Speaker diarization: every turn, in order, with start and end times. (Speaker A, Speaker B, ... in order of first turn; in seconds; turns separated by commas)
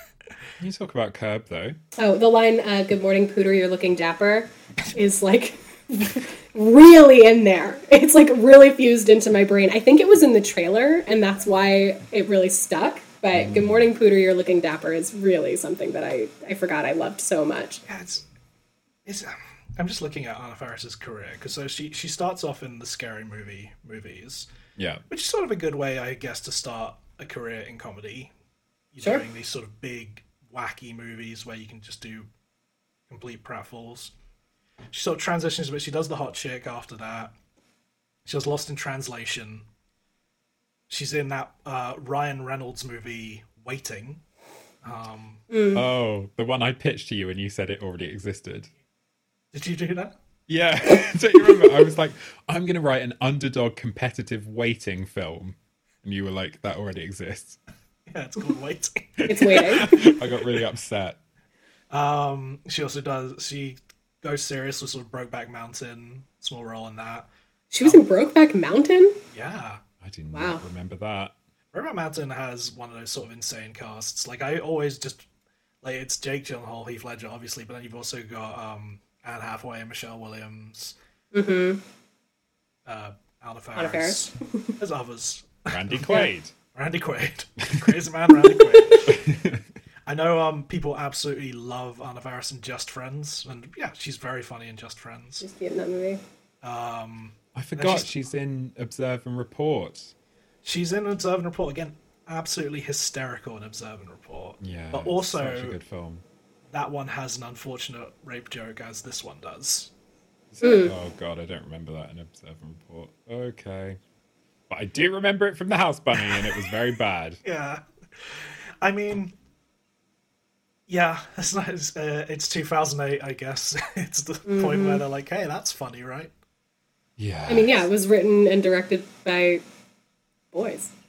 Speaker A: 0.6-1.8, Speaker B: 2.0-17.8, Speaker A: 13.3-13.9, Speaker C: 17.9-18.2, Speaker C: 19.1-24.5, Speaker A: 24.8-25.0, Speaker C: 25.1-28.3, Speaker C: 28.9-32.3, Speaker C: 33.1-34.1, Speaker C: 34.9-37.3, Speaker C: 38.3-39.6, Speaker C: 40.9-44.2, Speaker C: 44.8-45.4, Speaker B: 45.5-45.9, Speaker A: 45.8-48.7, Speaker C: 49.5-50.1, Speaker A: 50.5-57.6, Speaker C: 58.1-60.1, Speaker A: 59.2-61.2, Speaker B: 59.3-59.9, Speaker C: 61.9-67.3, Speaker B: 67.7-69.2, Speaker C: 69.3-69.8, Speaker A: 70.0-71.3, Speaker B: 70.3-70.6, Speaker C: 71.7-75.3, Speaker C: 75.8-81.0, Speaker B: 81.3-81.8, Speaker C: 82.9-89.1, Speaker B: 83.8-84.7, Speaker A: 85.7-86.5, Speaker B: 88.4-89.0, Speaker A: 89.1-89.7, Speaker C: 90.1-95.5, Speaker B: 95.4-96.2, Speaker C: 96.6-98.2, Speaker A: 97.5-100.1, Speaker C: 100.7-105.8, Speaker A: 104.6-106.2, Speaker C: 106.7-109.9, Speaker A: 110.5-114.0, Speaker B: 110.6-110.9, Speaker A: 114.7-117.4, Speaker C: 117.4-119.3, Speaker C: 120.9-126.3, Speaker B: 124.5-125.0, Speaker A: 127.2-127.9, Speaker B: 127.5-129.6, Speaker B: 130.5-130.9